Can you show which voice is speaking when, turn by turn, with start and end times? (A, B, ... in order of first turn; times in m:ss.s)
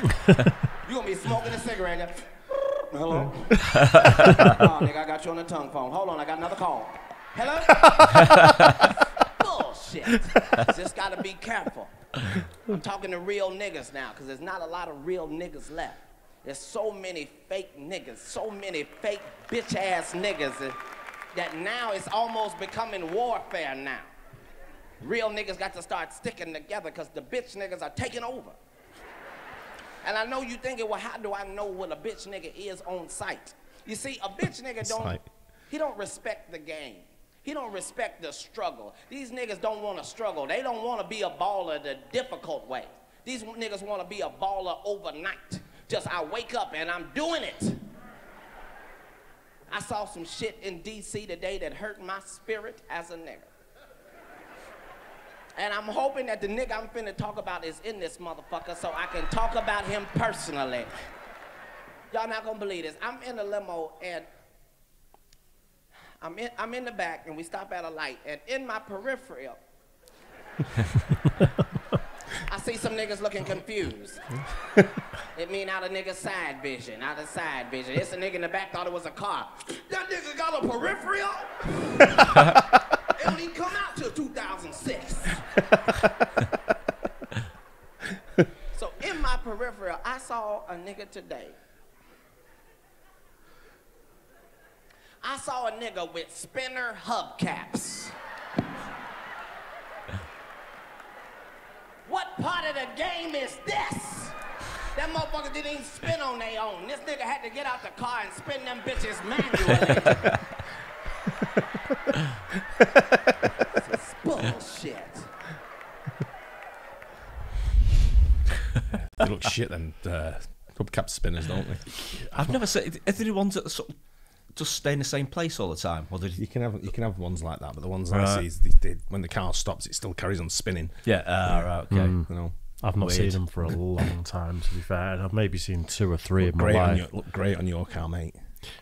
0:00.8-0:08.2 A
0:08.8-0:11.9 A
0:12.7-0:20.8 A
0:21.3-0:24.1 A
0:25.0-0:28.6 A
0:30.0-0:47.9 A
0:34.8-0:35.2 B
0:49.7-0:53.5 A
0:55.6-1:00.9 A
1:02.1-1:04.3 A
1:06.2-1:09.6 A
1:12.4-1:14.3 A
1:15.3-1:22.5 A
1:23.2-1:25.4 A
1:28.7-1:31.6 A
1:35.2-1:38.2 A
1:42.0-1:50.3 A
1:53.8-1:55.3 A
1:58.9-2:02.0 B
2:02.3-2:06.4 C
2:06.4-2:12.6 B
2:08.1-2:08.4 C
2:11.0-2:12.2 C
2:11.9-2:17.1 D
2:13.0-2:13.6 C
2:16.4-2:18.4 B